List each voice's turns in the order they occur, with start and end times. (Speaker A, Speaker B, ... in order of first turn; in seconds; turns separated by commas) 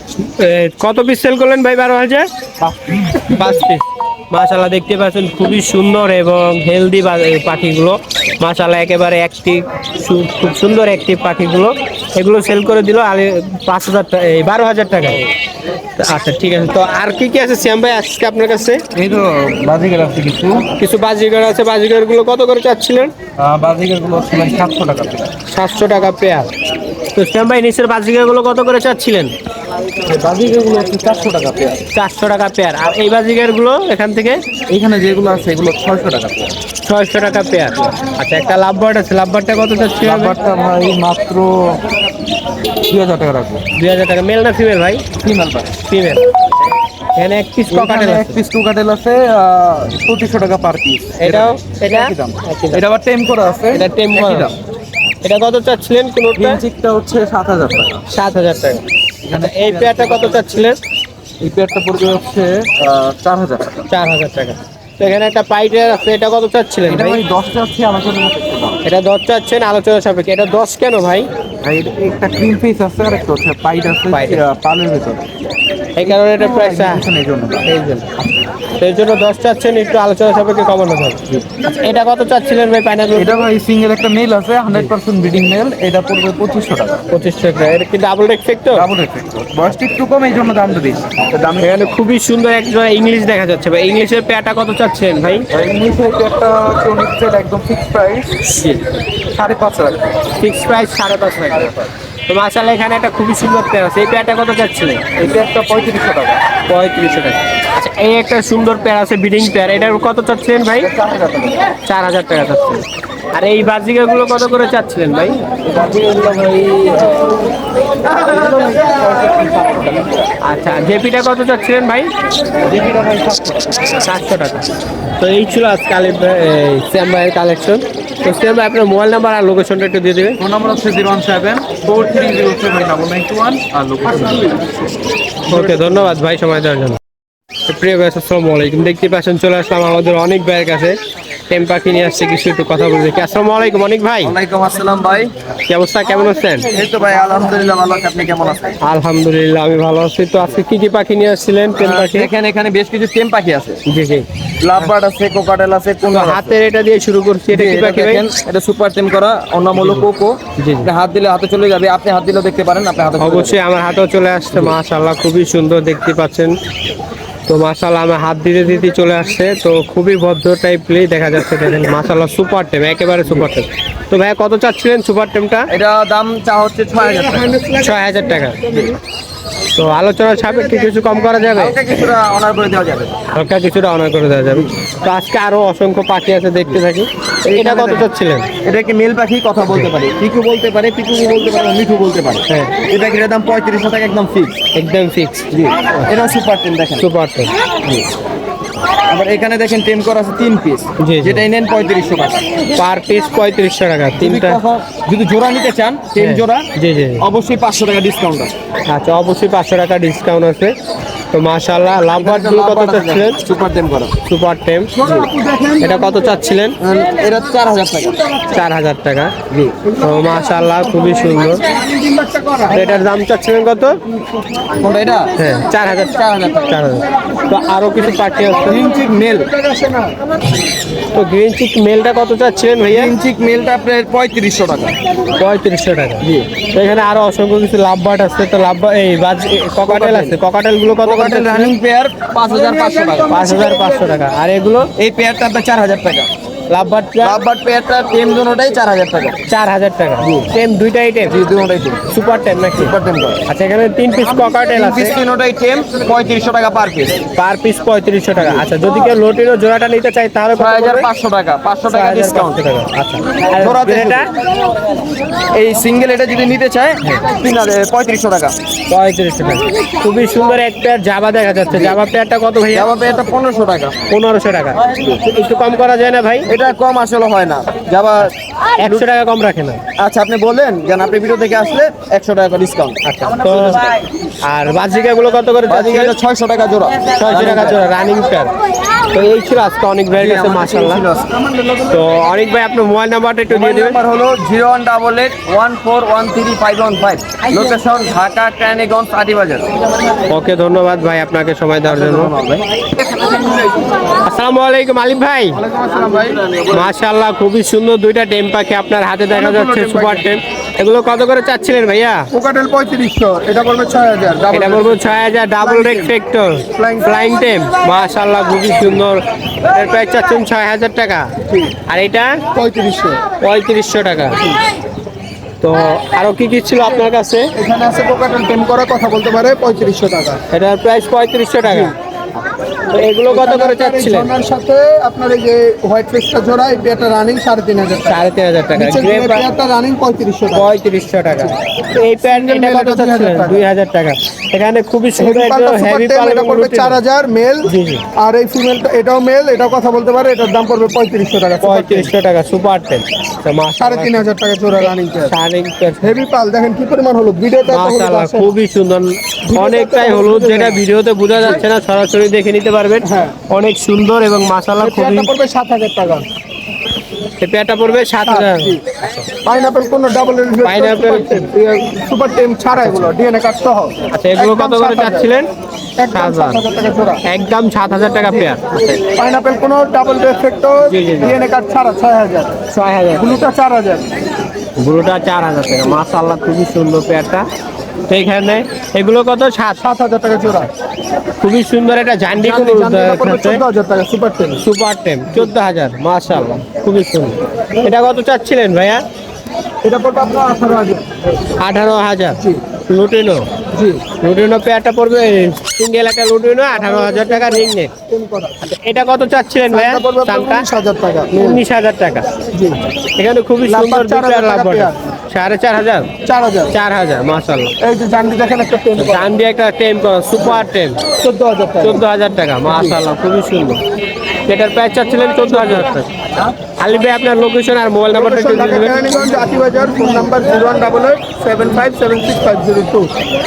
Speaker A: 0.2-2.3, Speaker A: 3.1-15.2, Speaker A: 16.0-18.8, Speaker B: 18.9-20.7, Speaker A: 20.8-23.1, Speaker B: 23.4-25.3, Speaker A: 25.5-26.5, Speaker A: 27.1-29.3, Speaker B: 30.1-31.8, Speaker A: 31.9-34.4, Speaker B: 34.7-36.5, Speaker A: 36.8-40.4, Speaker B: 40.0-41.8, Speaker B: 42.9-43.6, Speaker A: 43.7-45.0, Speaker B: 45.2-45.7, Speaker A: 45.8-46.2, Speaker A: 47.1-48.4, Speaker B: 47.7-54.5, Speaker A: 51.2-52.8, Speaker A: 53.7-54.5, Speaker A: 55.2-56.6, Speaker B: 56.4-58.0, Speaker A: 58.1-58.8, Speaker B: 59.3-60.5, Speaker A: 59.3-60.8, Speaker B: 61.4-63.9, Speaker A: 63.9-67.2, Speaker B: 66.9-68.8, Speaker A: 68.8-71.3, Speaker B: 71.6-75.2, Speaker A: 74.1-74.4, Speaker A: 76.0-77.0, Speaker B: 76.0-77.6, Speaker A: 77.6-78.1, Speaker A: 78.8-83.5, Speaker B: 83.2-87.0, Speaker A: 87.1-88.9, Speaker B: 88.8-92.0, Speaker A: 91.6-95.5, Speaker B: 95.5-98.8, Speaker B: 99.4-100.1, Speaker A: 100.4-105.0, Speaker B: 105.2-106.3, Speaker A: 106.7-110.9, Speaker B: 110.8-111.6, Speaker A: 111.8-112.8, Speaker A: 113.3-115.4, Speaker B: 115.6-117.3, Speaker B: 118.1-120.2, Speaker A: 120.4-122.1, Speaker B: 122.7-123.8, Speaker A: 123.9-124.7, Speaker A: 125.2-130.4, Speaker B: 130.4-134.6, Speaker C: 134.2-134.5, Speaker A: 135.5-137.0, Speaker A: 137.7-141.0, Speaker A: 141.5-144.3, Speaker B: 144.2-145.3, Speaker A: 145.7-146.7, Speaker B: 146.6-148.8, Speaker A: 148.8-152.3, Speaker B: 151.8-153.8, Speaker A: 153.8-154.3, Speaker B: 154.6-156.6, Speaker A: 156.1-158.2, Speaker B: 157.5-163.6, Speaker A: 159.8-160.0, Speaker A: 160.6-160.9, Speaker A: 163.2-166.5, Speaker A: 167.5-175.7, Speaker B: 175.7-177.6, Speaker C: 177.0-178.9, Speaker A: 177.7-178.6, Speaker B: 178.7-178.9, Speaker A: 179.7-181.9, Speaker B: 181.3-183.1, Speaker A: 183.3-188.5, Speaker B: 187.4-188.1, Speaker B: 188.6-194.6, Speaker A: 192.5-192.7, Speaker A: 194.7-195.5, Speaker B: 195.5-197.1, Speaker A: 197.0-197.5, Speaker B: 199.1-202.4, Speaker A: 201.0-201.4, Speaker A: 202.8-204.6, Speaker B: 204.2-208.5, Speaker A: 206.2-207.2, Speaker A: 208.9-210.7, Speaker A: 211.3-213.4, Speaker B: 212.2-214.1, Speaker A: 214.2-215.1, Speaker C: 214.9-216.4, Speaker A: 215.8-216.8, Speaker B: 216.8-218.2, Speaker A: 218.5-219.3, Speaker B: 219.5-219.8, Speaker C: 219.8-223.1, Speaker A: 220.0-221.6, Speaker A: 222.7-224.0, Speaker B: 224.8-225.3, Speaker A: 225.3-228.9, Speaker B: 226.1-226.9, Speaker C: 227.1-227.6, Speaker B: 228.6-229.5, Speaker C: 228.8-230.1, Speaker A: 231.1-233.1, Speaker B: 232.9-235.0, Speaker A: 235.4-241.7, Speaker B: 239.8-240.4, Speaker B: 241.0-243.4, Speaker C: 242.5-244.0, Speaker A: 243.3-244.9, Speaker B: 245.0-246.3, Speaker A: 246.7-247.4, Speaker B: 247.2-249.4, Speaker A: 249.4-251.3, Speaker B: 251.3-252.1, Speaker A: 252.1-252.9, Speaker B: 252.8-253.4, Speaker A: 253.5-255.2, Speaker B: 254.7-257.2, Speaker A: 257.4-261.1, Speaker B: 260.5-262.6, Speaker A: 261.9-264.3, Speaker B: 263.6-264.3, Speaker B: 265.5-268.6, Speaker A: 268.9-272.9, Speaker B: 271.7-272.0, Speaker B: 272.7-274.0, Speaker A: 274.1-276.5, Speaker B: 276.5-279.1, Speaker A: 278.8-279.8, Speaker B: 280.0-283.9, Speaker A: 283.0-283.8, Speaker A: 284.4-286.1, Speaker B: 285.7-287.8, Speaker A: 287.1-288.5, Speaker A: 289.1-291.0, Speaker B: 290.1-291.4, Speaker A: 291.9-294.0, Speaker B: 293.5-299.7, Speaker A: 300.3-302.3, Speaker B: 301.8-302.6, Speaker A: 304.2-305.6, Speaker C: 305.6-306.4, Speaker B: 306.4-306.8, Speaker A: 306.7-312.3, Speaker C: 309.3-310.3, Speaker C: 312.3-315.1, Speaker A: 314.5-321.3, Speaker C: 315.6-316.1, Speaker C: 316.7-317.1, Speaker C: 321.5-321.7, Speaker A: 321.9-322.4, Speaker C: 322.5-323.2, Speaker A: 323.4-324.4, Speaker A: 325.6-327.5, Speaker C: 327.6-330.4, Speaker A: 330.5-331.9, Speaker C: 331.6-331.9, Speaker A: 332.9-334.3, Speaker C: 333.3-338.2, Speaker A: 338.1-339.4, Speaker C: 338.7-340.7, Speaker A: 340.5-347.0, Speaker C: 342.2-343.6, Speaker C: 345.2-352.1, Speaker A: 347.7-348.0, Speaker A: 351.6-354.2, Speaker C: 353.8-355.3, Speaker A: 354.8-356.1, Speaker C: 356.0-358.5, Speaker A: 357.7-365.3, Speaker C: 359.4-360.8, Speaker C: 361.4-361.6, Speaker C: 363.0-363.4, Speaker C: 364.8-366.2, Speaker A: 367.4-369.2, Speaker C: 368.2-368.8, Speaker C: 369.4-375.3, Speaker A: 370.6-371.5, Speaker A: 372.7-373.1, Speaker A: 374.1-375.5, Speaker C: 376.0-377.2, Speaker A: 376.1-376.6, Speaker A: 377.2-378.9, Speaker C: 378.2-382.6, Speaker A: 380.9-381.4, Speaker A: 382.7-383.4, Speaker C: 383.1-384.1, Speaker A: 384.8-387.4, Speaker A: 388.1-389.8, Speaker C: 389.8-390.7, Speaker A: 391.4-393.6, Speaker C: 392.4-394.6, Speaker A: 394.6-399.0, Speaker C: 399.8-401.0, Speaker A: 401.6-403.5, Speaker C: 403.7-404.0, Speaker A: 404.2-407.9, Speaker C: 406.7-408.7, Speaker A: 408.6-410.6, Speaker C: 409.7-411.6, Speaker A: 411.3-412.2, Speaker C: 412.5-412.8, Speaker A: 413.1-416.1, Speaker C: 413.6-415.0, Speaker C: 416.2-416.7, Speaker A: 416.7-417.7, Speaker C: 417.8-419.3, Speaker A: 419.0-421.0, Speaker C: 421.2-422.0, Speaker A: 421.8-423.8, Speaker C: 422.6-423.0, Speaker A: 424.5-426.1, Speaker C: 425.5-425.9, Speaker A: 426.8-429.0, Speaker C: 428.1-433.1